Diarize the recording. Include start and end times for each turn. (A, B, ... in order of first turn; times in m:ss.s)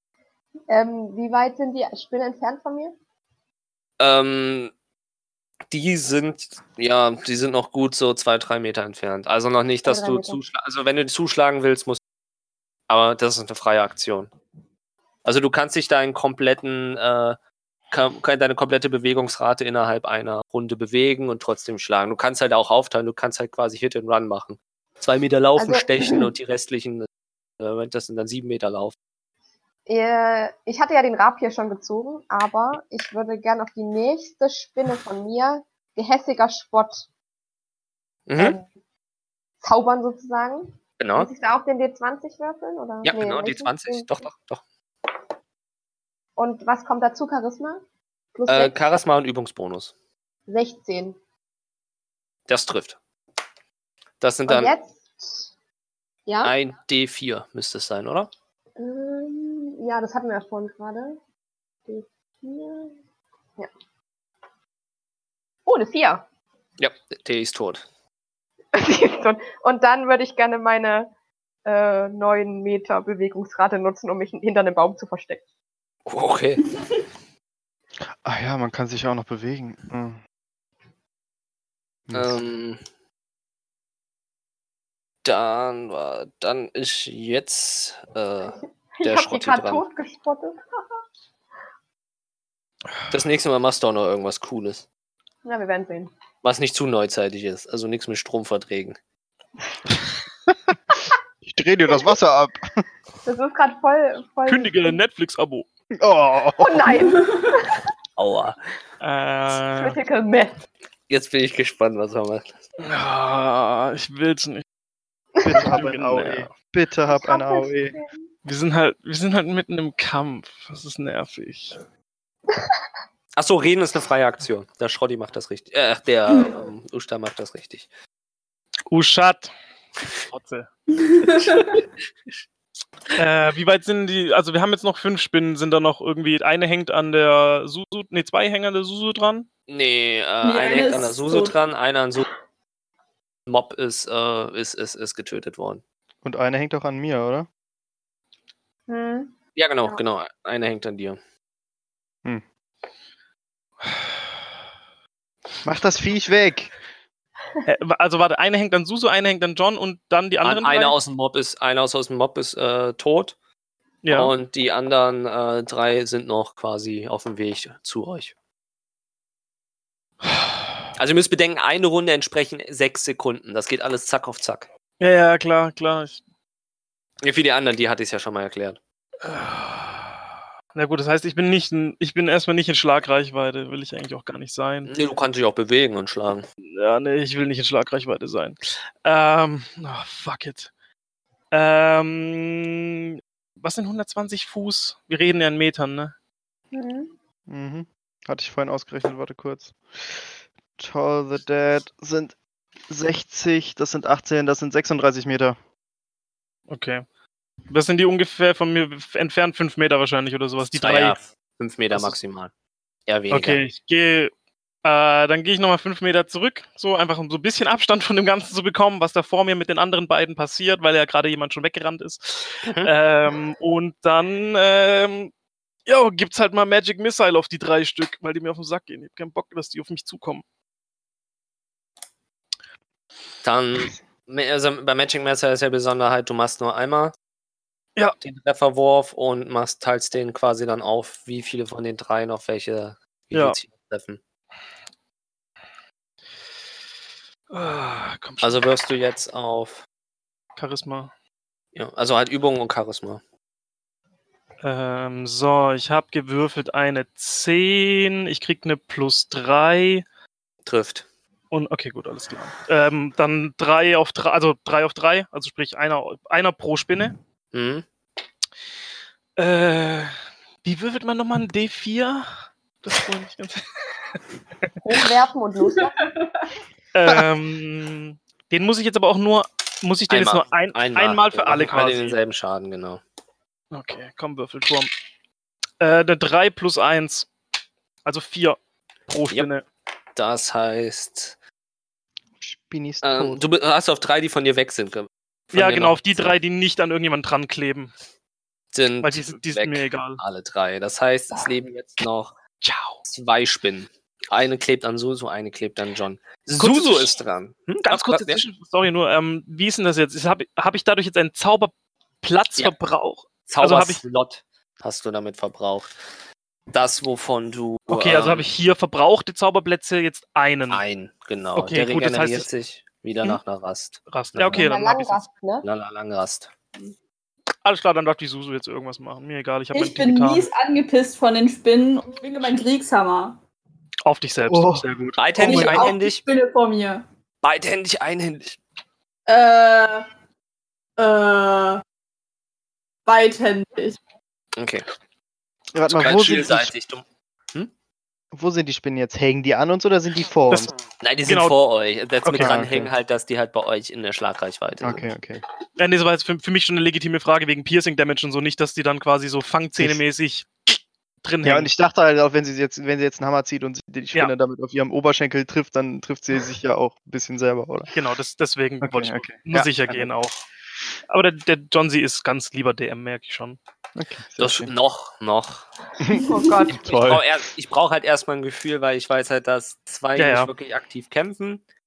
0:00.7-0:02.9 A
0:04.0-0:04.7 B
0:05.7-0:12.0 B
0:09.8-0:10.4 A
0:12.9-0:14.3 B
0:15.2-0:17.4 B
0:17.9-0:27.1 B
0:25.6-0:26.3 A
0:27.6-0:29.0 B
0:29.9-0:37.1 A
0:38.3-0:38.6 B
0:38.4-0:38.7 A
0:39.6-0:44.1 A
0:41.0-0:41.3 B
0:43.0-0:44.6 B
0:46.4-0:47.8 A
0:48.4-0:48.8 A
0:48.5-0:49.9 B
0:50.5-0:51.2 A
0:52.5-0:53.0 B
0:54.2-0:54.7 B
0:54.5-0:55.5 A
0:56.3-0:56.5 A
0:56.4-0:58.3 B
0:58.8-1:01.2 A
1:01.9-1:03.0 A
1:05.7-1:06.2 A
1:06.8-1:07.8 B
1:08.7-1:11.1 A
1:11.6-1:15.4 A
1:16.1-1:16.6 B
1:18.0-1:20.2 C
1:22.1-1:22.4 C
1:22.1-1:22.8 B
1:25.2-1:29.8 B
1:29.0-1:30.6 A
1:33.1-1:34.9 B
1:35.4-1:36.1 A
1:36.4-1:39.0 B
1:41.4-1:42.8 C
1:43.2-1:45.0 A
1:44.5-1:45.7 D
1:46.0-1:46.8 C
1:46.6-1:47.8 A
1:48.2-1:48.6 B
1:49.0-1:50.0 D
1:49.5-1:50.6 A
1:51.1-1:52.5 B
1:52.8-1:54.6 D
1:55.4-1:55.8 A
1:55.4-1:58.0 C
1:55.5-1:56.5 D
1:57.1-1:58.3 A
1:58.4-2:01.8 D
2:03.4-2:07.9 B
2:06.3-2:06.6 E
2:08.9-2:09.5 D
2:10.3-2:10.7 D
2:10.9-2:11.8 E
2:13.2-2:19.5 D
2:19.7-2:22.3 B
2:20.4-2:21.6 E
2:23.5-2:25.8 B
2:26.2-2:27.5 C
2:28.9-2:29.3 A
2:29.6-2:31.2 B
2:35.6-2:36.7 C
2:37.6-2:41.0 D
2:40.4-2:43.4 B
2:44.0-2:44.3 D
2:44.1-2:48.3 B
2:51.0-2:54.7 B
2:55.0-2:56.2 D
2:57.2-2:58.8 B
2:59.2-3:00.2 D
3:00.7-3:04.9 D
3:04.9-3:06.5 B
3:06.8-3:10.7 D
3:11.5-3:16.1 D
3:16.7-3:17.1 A
3:17.5-3:20.3 C
3:20.8-3:22.4 C
3:22.9-3:25.6 C
3:26.7-3:27.0 D
3:27.7-3:31.2 D
3:30.6-3:32.5 B
3:33.1-3:33.6 B
3:33.3-3:34.3 D
3:34.8-3:45.3 D
3:42.7-3:42.9 B
3:45.9-3:50.4 D
3:53.4-3:57.1 B
3:58.2-4:04.2 B
4:03.3-4:03.6 D
4:07.5-4:08.6 D
4:08.4-4:09.8 B
4:10.6-4:11.1 D
4:11.8-4:13.2 B
4:14.6-4:20.0 D
4:20.7-4:21.1 B
4:21.5-4:27.2 D
4:27.5-4:27.8 B
4:29.4-4:33.6 D
4:34.8-4:36.0 A
4:36.0-4:36.4 E
4:36.9-4:42.2 D
4:40.1-4:43.0 B
4:43.7-4:44.9 D
4:45.8-4:47.3 D
4:48.0-4:49.6 D
4:50.2-4:51.4 B
4:52.4-4:53.4 C
4:53.0-4:56.3 B
4:55.5-4:57.9 D
4:58.7-5:02.4 B
4:59.0-5:00.2 D
5:02.6-5:03.0 D
5:03.0-5:08.4 B
5:06.6-5:07.2 D
5:07.8-5:14.0 D
5:13.5-5:15.9 B
5:16.7-5:18.5 B
5:17.9-5:20.8 D
5:20.7-5:24.7 B
5:21.6-5:22.5 D
5:24.1-5:25.3 D
5:24.5-5:25.6 A
5:25.6-5:26.5 B
5:27.6-5:30.5 D
5:29.7-5:33.4 E
5:34.0-5:35.8 D
5:34.5-5:34.9 C
5:35.2-5:36.2 B
5:35.4-5:37.0 E
5:37.4-5:38.6 B
5:39.3-5:40.1 E
5:41.0-5:41.8 E
5:43.1-5:44.0 E
5:44.6-5:44.9 B
5:45.7-5:46.7 C
5:45.9-5:47.7 B
5:48.3-5:50.7 C
5:51.0-5:55.1 B
5:51.3-5:51.5 D
5:52.2-5:52.6 D
5:52.4-5:52.9 C
5:54.8-5:55.4 C
5:55.8-6:01.7 D
6:01.4-6:07.9 C
6:07.9-6:10.4 D
6:08.8-6:10.1 C
6:11.1-6:13.6 D
6:14.0-6:14.7 C
6:14.4-6:15.6 B
6:16.0-6:17.2 C
6:16.1-6:16.8 A
6:16.8-6:21.6 B
6:20.2-6:20.5 D